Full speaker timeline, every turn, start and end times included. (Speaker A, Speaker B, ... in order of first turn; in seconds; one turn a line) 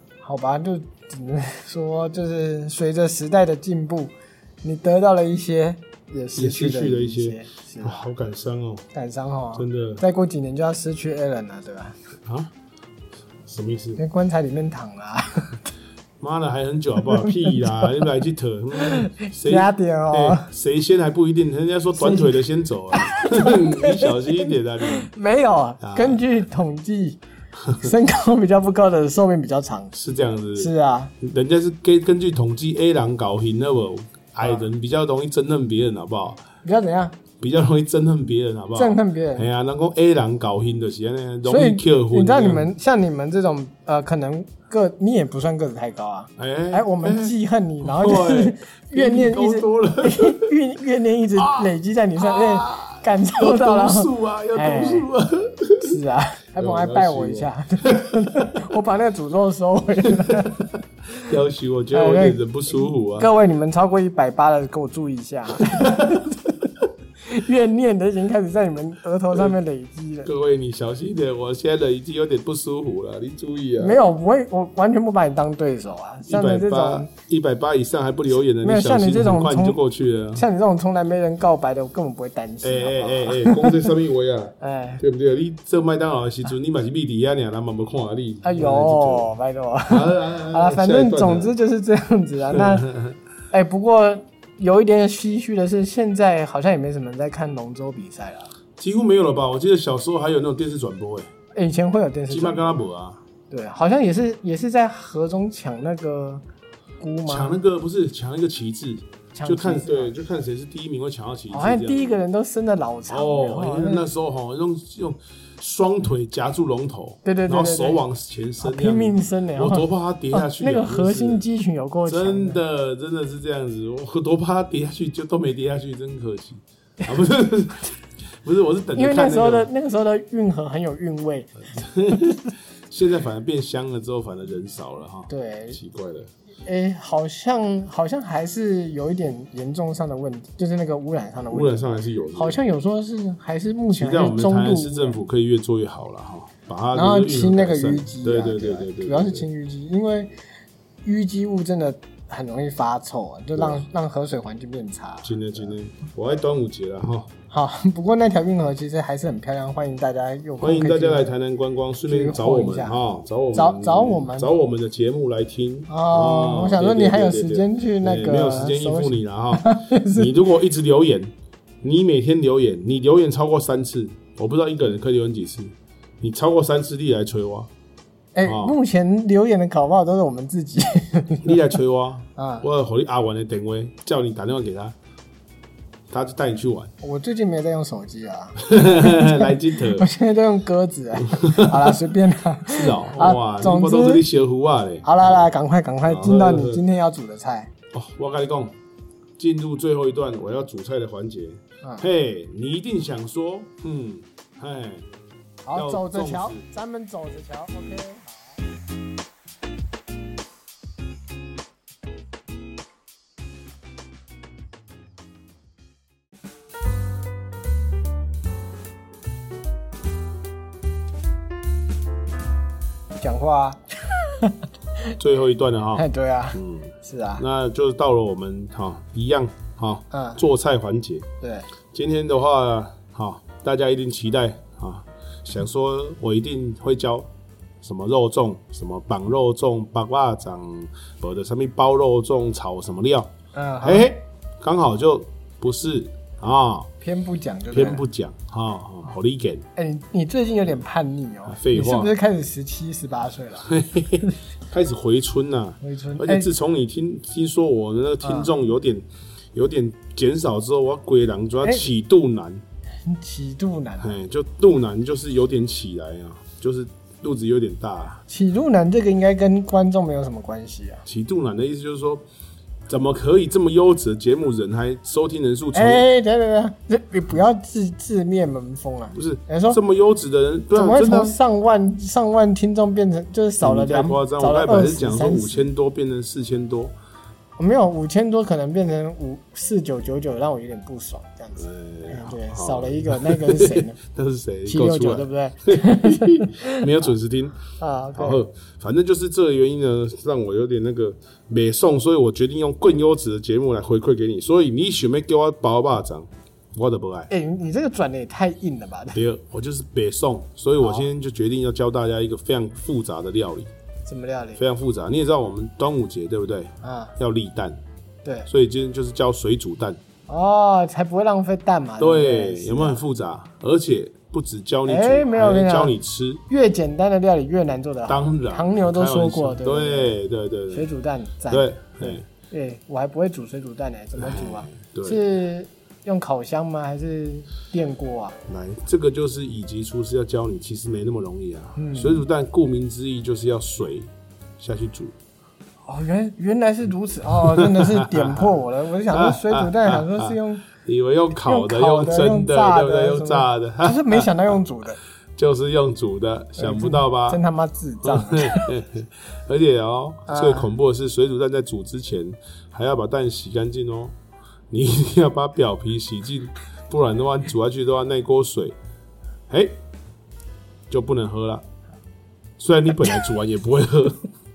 Speaker A: 0.2-8.1
Speaker B: 6.3-8.9
Speaker A: 8.9-12.0
Speaker B: 9.5-10.0
Speaker B: 12.2-12.5
Speaker B: 13.5-14.0
Speaker A: 14.0-15.6
Speaker B: 16.2-25.1
Speaker A: 17.1-18.1
Speaker A: 18.8-20.5
Speaker A: 22.0-22.3
Speaker A: 22.9-27.2
Speaker B: 25.8-26.2
Speaker B: 27.6-27.9
Speaker A: 27.8-29.9
Speaker B: 29.9-36.4
Speaker A: 30.6-31.1
Speaker A: 36.6-37.2
Speaker B: 37.4-42.7
Speaker A: 38.8-39.5
Speaker A: 41.5-55.1
Speaker B: 46.4-50.5
Speaker B: 51.4-55.9
Speaker A: 55.8-60.6
Speaker B: 56.6-58.6
Speaker B: 60.1-60.6
Speaker B: 61.2-63.3
Speaker A: 61.9-66.6
Speaker B: 65.6-66.2
Speaker A: 67.2-70.3
Speaker B: 70.2-74.0
Speaker A: 73.8-77.1
Speaker B: 76.3-80.5
Speaker A: 78.6-79.8
Speaker A: 80.3-83.9
Speaker B: 82.6-89.3
Speaker A: 84.6-85.0
Speaker A: 88.4-92.9
Speaker B: 89.9-91.5
Speaker B: 92.5-93.2
Speaker A: 93.5-98.5
Speaker B: 98.8-101.3
Speaker A: 101.5-102.8
Speaker B: 102.3-103.2
Speaker A: 103.5-106.4
Speaker A: 107.0-107.6
Speaker B: 107.3-112.2
Speaker A: 109.3-110.1
Speaker A: 111.5-114.1
Speaker B: 113.1-121.4
Speaker A: 117.2-118.0
Speaker A: 118.6-122.6
Speaker B: 122.1-129.7
Speaker A: 128.9-132.5
Speaker B: 131.7-136.3
Speaker A: 135.3-135.8
Speaker A: 136.7-145.2
Speaker B: 141.5-142.6
Speaker B: 143.9-149.5
Speaker A: 146.9-150.3
Speaker A: 151.1-155.7
Speaker B: 153.6-153.8
Speaker B: 155.2-157.3
Speaker A: 157.5-161.3
Speaker B: 160.6-177.7
Speaker A: 162.1-163.0
Speaker A: 163.5-164.5
Speaker A: 165.9-170.3
Speaker A: 178.3-181.7
Speaker B: 178.4-178.8
Speaker B: 181.4-184.9
Speaker A: 182.4-182.7
Speaker B: 186.1-186.9
Speaker A: 187.0-194.2
Speaker B: 188.6-190.1
Speaker B: 191.2-192.0
Speaker B: 192.7-195.4
Speaker A: 195.0-197.7
Speaker B: 196.1-196.8
Speaker B: 197.9-198.8
Speaker B: 199.4-205.1
Speaker A: 205.6-208.6
Speaker B: 205.7-206.7
Speaker A: 223.2-224.6
Speaker B: 225.2-231.3
Speaker A: 226.0-227.4
Speaker A: 230.1-230.4
Speaker A: 231.4-231.7
Speaker B: 231.9-237.3
Speaker B: 237.8-246.9
Speaker A: 243.5-244.1
Speaker A: 247.0-248.0
Speaker B: 247.7-249.7
Speaker A: 249.8-253.7
Speaker B: 251.5-252.1
Speaker B: 253.6-262.6
Speaker A: 255.8-256.5
Speaker A: 258.2-258.5
Speaker A: 263.1-264.1
Speaker B: 264.0-268.2
Speaker A: 268.3-271.1
Speaker B: 271.1-272.2
Speaker B: 272.9-276.1
Speaker A: 275.7-279.8
Speaker B: 279.1-281.4
Speaker A: 280.7-285.7
Speaker B: 283.6-286.9
Speaker A: 287.6-294.0
Speaker B: 291.6-297.6
Speaker A: 294.7-297.0
Speaker A: 297.8-298.4
Speaker B: 298.1-307.3
Speaker A: 307.3-309.2
Speaker B: 309.1-313.7
Speaker A: 310.8-311.1
Speaker A: 314.1-314.6
Speaker B: 314.6-317.8
Speaker A: 316.8-317.1
Speaker A: 318.2-318.5
Speaker B: 318.5-320.0
Speaker A: 320.3-323.0
Speaker B: 322.0-326.4
Speaker A: 324.9-325.9
Speaker A: 326.5-330.2
Speaker B: 328.1-330.9
Speaker A: 330.7-338.4
Speaker B: 331.5-332.3
Speaker B: 334.2-335.2
Speaker B: 338.5-345.1
Speaker A: 341.8-342.2
Speaker A: 345.9-350.7
Speaker B: 347.3-348.5
Speaker B: 349.1-354.5
Speaker A: 351.4-355.0
Speaker B: 355.4-357.4
Speaker A: 356.6-358.8
Speaker B: 358.0-364.1
Speaker A: 360.3-360.7
Speaker B: 364.7-368.8
Speaker B: 369.5-369.8
Speaker B: 370.9-371.6
Speaker B: 372.6-374.3